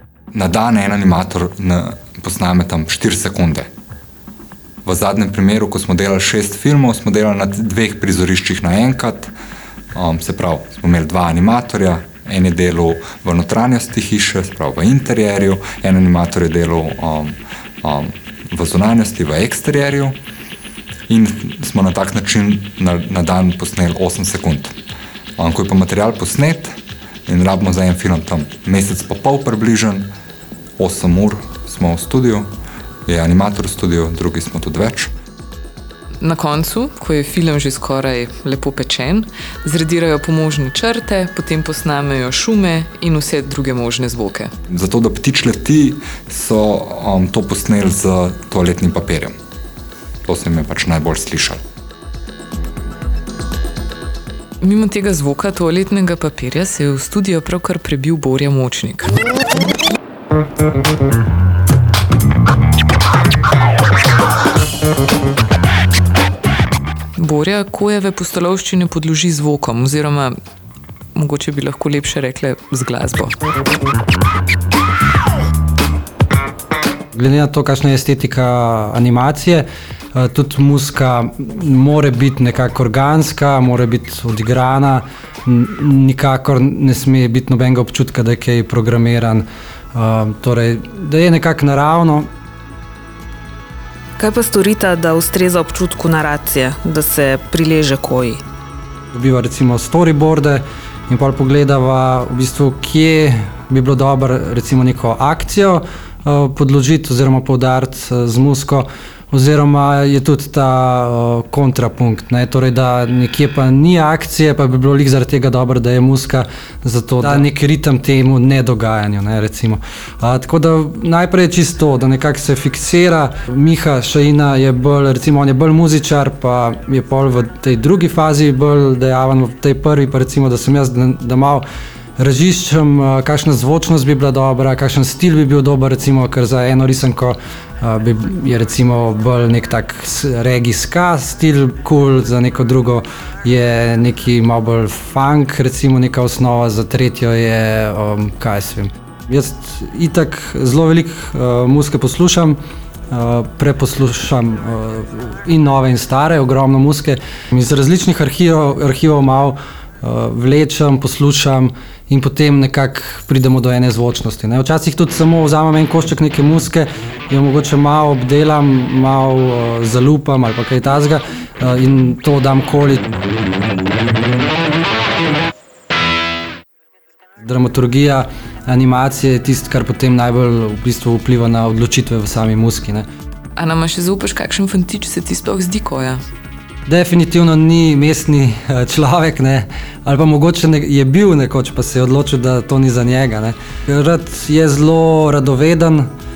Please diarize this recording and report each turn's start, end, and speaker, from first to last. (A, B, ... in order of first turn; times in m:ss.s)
0:00.3-0:03.7 A
0:04.8-0:09.3 A
0:09.9-0:20.2 A
0:21.1-0:24.7 A
0:25.4-0:30.1 A
0:30.8-0:32.5 A
0:33.0-0:35.1 A
0:36.2-0:44.5 B
0:44.7-0:49.3 A
0:50.2-0:51.6 A
0:54.6-0:59.2 B
1:07.2-1:10.3 B
1:11.1-1:13.4 B
1:17.1-1:32.3 C
1:34.2-1:38.4 D
1:39.1-2:11.6 C
2:12.2-2:32.6 C
2:33.1-2:53.1 C
2:57.4-3:03.0 C
3:03.6-3:06.2 B
3:06.8-3:16.1 C